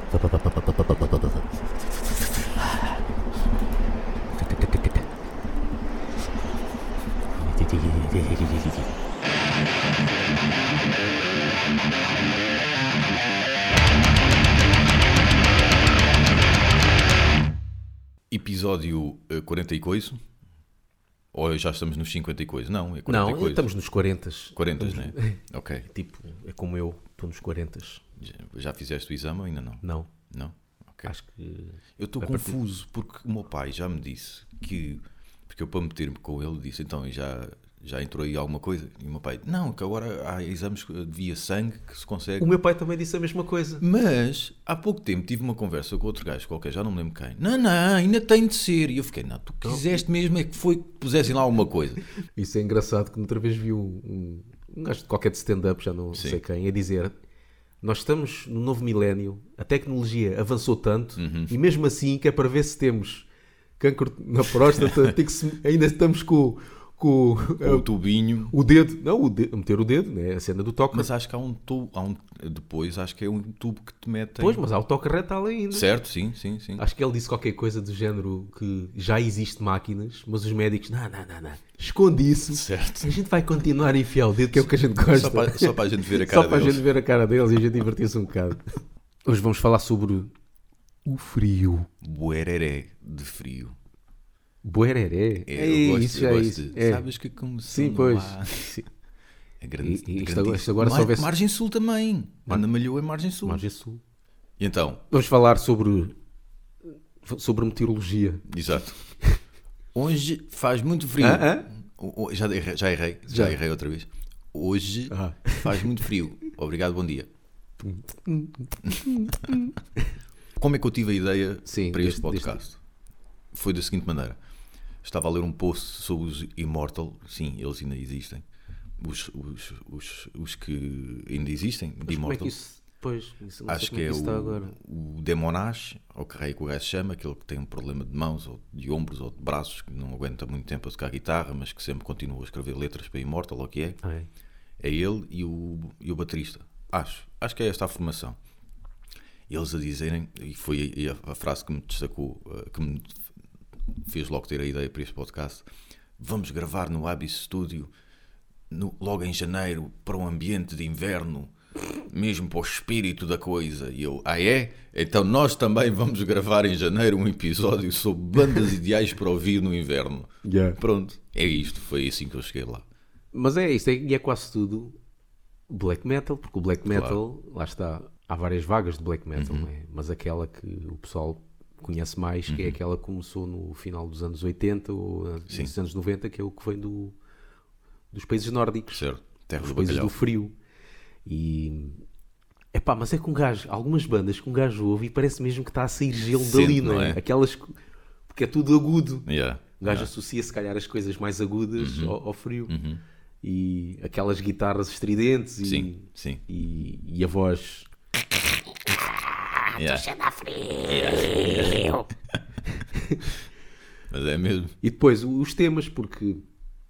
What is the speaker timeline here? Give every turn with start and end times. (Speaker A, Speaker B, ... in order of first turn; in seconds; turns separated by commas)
Speaker A: 0.3-1.0, Speaker A: 7.3-8.9, Speaker B: 18.3-20.2, Speaker B: 21.3-23.7, Speaker A: 23.1-28.0, Speaker B: 24.5-25.9, Speaker B: 28.2-31.1, Speaker A: 29.8-30.1, Speaker A: 31.0-32.6, Speaker B: 32.0-42.5, Speaker A: 42.4-43.8, Speaker B: 43.8-52.0, Speaker A: 52.3-57.1, Speaker B: 56.1-56.4, Speaker A: 57.8-63.3, Speaker B: 61.2-61.5, Speaker A: 63.8-67.9, Speaker B: 67.6-68.5, Speaker A: 68.5-71.1, Speaker B: 70.9-74.6, Speaker A: 74.4-75.9, Speaker B: 75.7-76.8, Speaker A: 76.8-88.7, Speaker B: 82.5-83.1, Speaker B: 84.5-86.8, Speaker A: 89.2-90.3, Speaker A: 91.0-91.9, Speaker B: 92.0-93.7, Speaker A: 94.6-97.1, Speaker B: 95.5-98.7, Speaker A: 97.6-98.8, Speaker B: 99.6-103.6, Speaker A: 99.8-101.3, Speaker A: 103.4-104.0, Speaker B: 104.6-105.0, Speaker A: 105.1-106.1, Speaker A: 106.8-108.5, Speaker B: 108.5-109.0, Speaker B: 109.9-117.3, Speaker A: 111.2-111.7, Speaker A: 113.3-113.6, Speaker A: 115.1-115.8, Speaker A: 117.8-119.7, Speaker B: 120.6-122.8, Speaker A: 121.7-122.6, Speaker B: 123.5-124.4, Speaker B: 125.0-128.4, Speaker B: 129.0-132.5, Speaker A: 132.0-134.8, Speaker B: 133.7-144.0, Speaker A: 144.0-144.3, Speaker B: 144.8-148.3, Speaker B: 149.5-153.2, Speaker B: 153.9-155.7, Speaker B: 156.2-157.9, Speaker B: 158.7-161.5, Speaker B: 162.1-172.8, Speaker A: 170.4-170.8, Speaker A: 173.3-175.0, Speaker A: 175.7-187.2, Speaker B: 176.9-177.2, Speaker B: 179.3-179.7, Speaker B: 182.5-182.8, Speaker A: 188.1-189.1, Speaker B: 188.9-190.2, Speaker A: 189.6-190.5, Speaker A: 191.2-192.0, Speaker A: 192.7-197.8, Speaker B: 196.2-197.2, Speaker A: 198.3-199.3, Speaker B: 199.2-200.1, Speaker A: 199.8-202.7, Speaker B: 201.8-202.2, Speaker B: 202.7-203.0, Speaker A: 203.4-207.9, Speaker B: 205.6-206.4, Speaker A: 208.9-212.0, Speaker B: 209.7-210.1, Speaker B: 210.8-211.9, Speaker A: 212.7-213.3, Speaker B: 214.1-214.8, Speaker A: 214.8-216.4